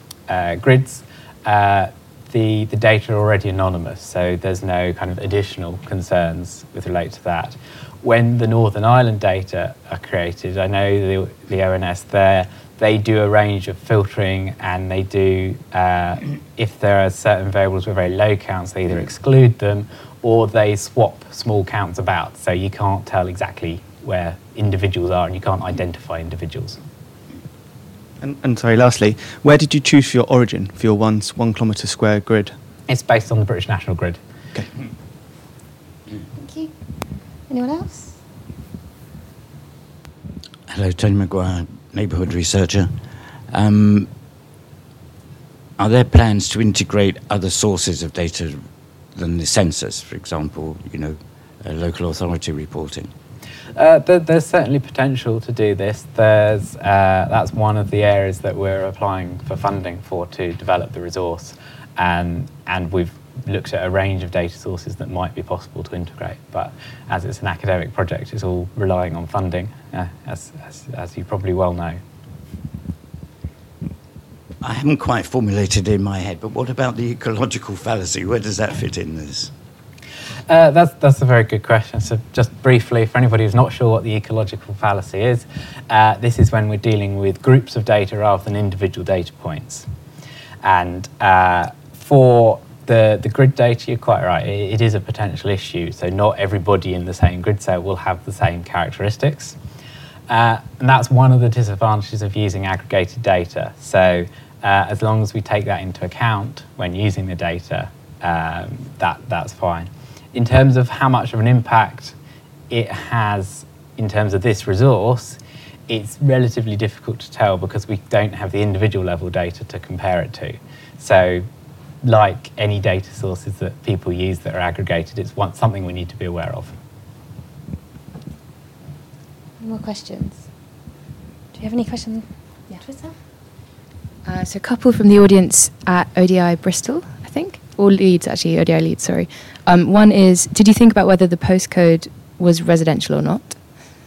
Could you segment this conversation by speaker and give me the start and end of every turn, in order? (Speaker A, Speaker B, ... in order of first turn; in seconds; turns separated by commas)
Speaker A: 0.3-26.8, Speaker B: 28.2-32.5, Speaker A: 32.9-34.2, Speaker C: 36.4-36.7, Speaker C: 37.5-38.2, Speaker D: 40.7-42.9, Speaker D: 43.5-44.1, Speaker D: 45.8-53.1, Speaker A: 53.7-72.0, Speaker D: 74.6-79.5, Speaker A: 80.5-89.9, Speaker A: 90.6-99.6, Speaker A: 100.3-112.2, Speaker A: 112.7-121.5, Speaker A: 122.0-126.8, Speaker C: 129.6-130.5, Speaker C: 131.5-133.1, Speaker E: 134.2-143.6